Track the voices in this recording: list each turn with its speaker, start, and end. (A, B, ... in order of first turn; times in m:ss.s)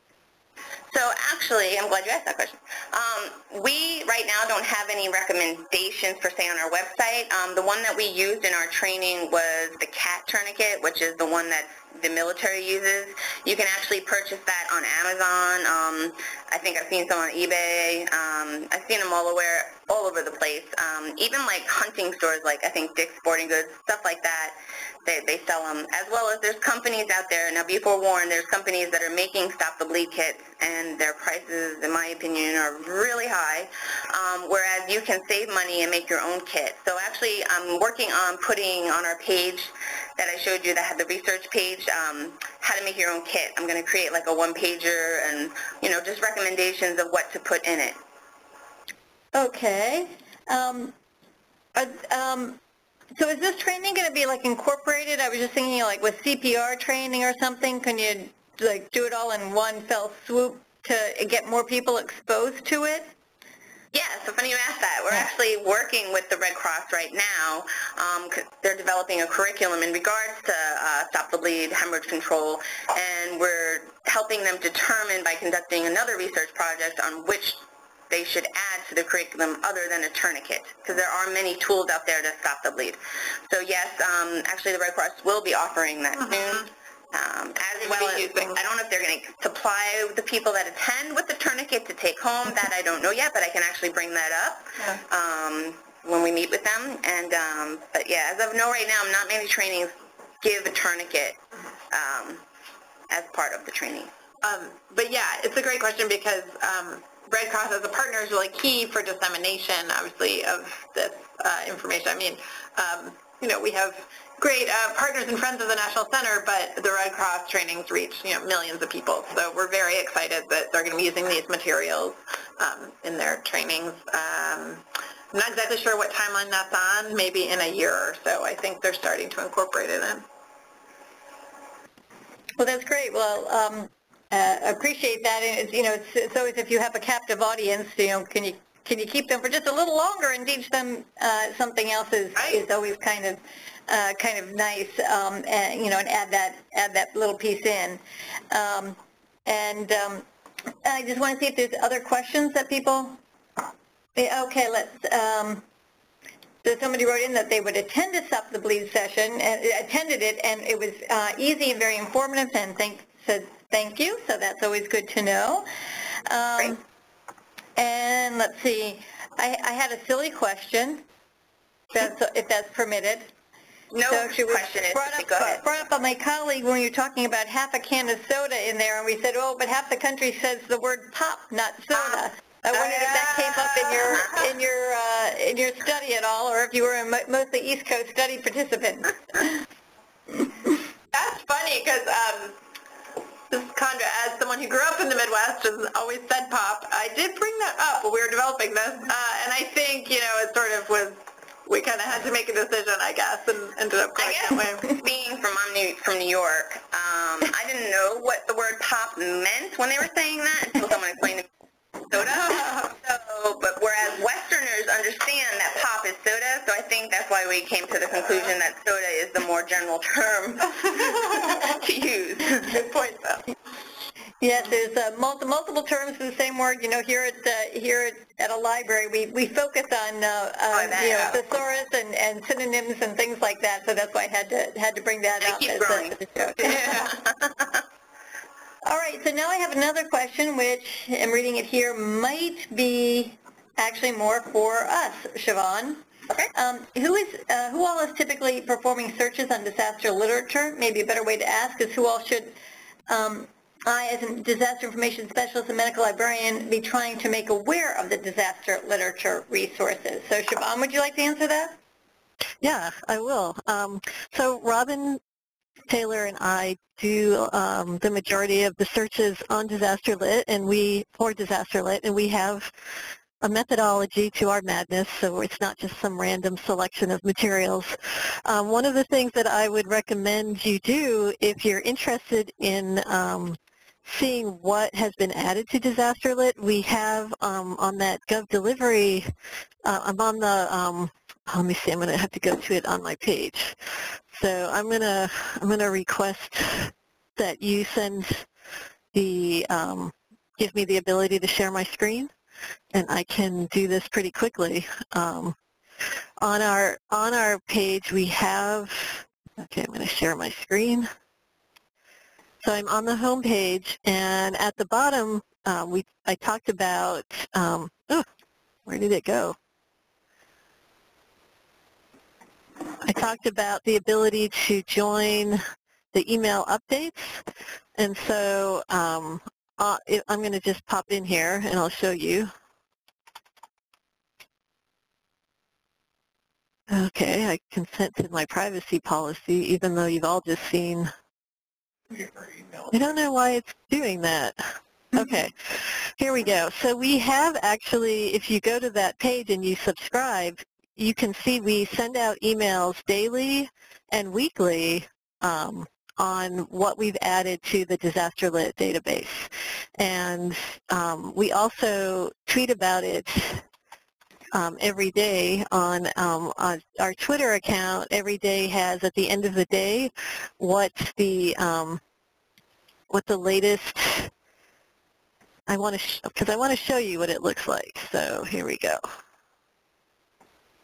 0:00.9-0:48.0 A
0:49.3-0:50.9 B
0:51.7-0:52.6 B
0:53.2-1:03.1 B
1:03.9-1:41.4 A
1:27.8-1:28.6 C
1:41.9-1:42.4 A
1:43.1-1:44.1 A
1:44.4-2:10.2 C
2:12.6-2:30.2 B
2:22.4-2:22.6 C
2:30.8-2:33.2 B
2:34.2-2:35.6 B
2:36.6-2:45.7 B
2:46.2-2:46.8 B
2:47.8-2:51.0 B
2:51.9-2:53.3 B
2:53.9-2:55.6 A
2:54.1-3:09.5 B
3:02.8-3:04.5 C
3:11.1-3:12.5 C
3:13.5-3:24.9 C
3:24.2-3:31.5 A
3:32.1-3:42.7 A
3:40.9-3:41.6 C
3:42.6-3:43.4 C
3:44.4-3:57.2 B
3:50.7-3:51.4 A
3:55.4-3:57.7 A
3:58.8-4:12.5 B
4:13.1-4:21.8 B
4:22.6-4:25.2 D
4:25.9-4:32.7 D
4:33.4-4:49.3 D
4:49.8-4:53.8 D
4:54.3-4:58.5 D
4:59.1-5:02.3 D
5:02.9-5:05.5 D
5:06.4-5:11.1 D
5:12.6-5:18.2 D
5:18.8-5:19.6 D
5:23.0-5:25.6 D
5:26.1-5:27.4 D
5:28.0-5:32.5 D
5:36.9-5:41.1 D
5:42.8-6:03.6 D
6:04.5-6:12.0 D
6:13.1-6:14.3 D
6:15.7-6:19.0 D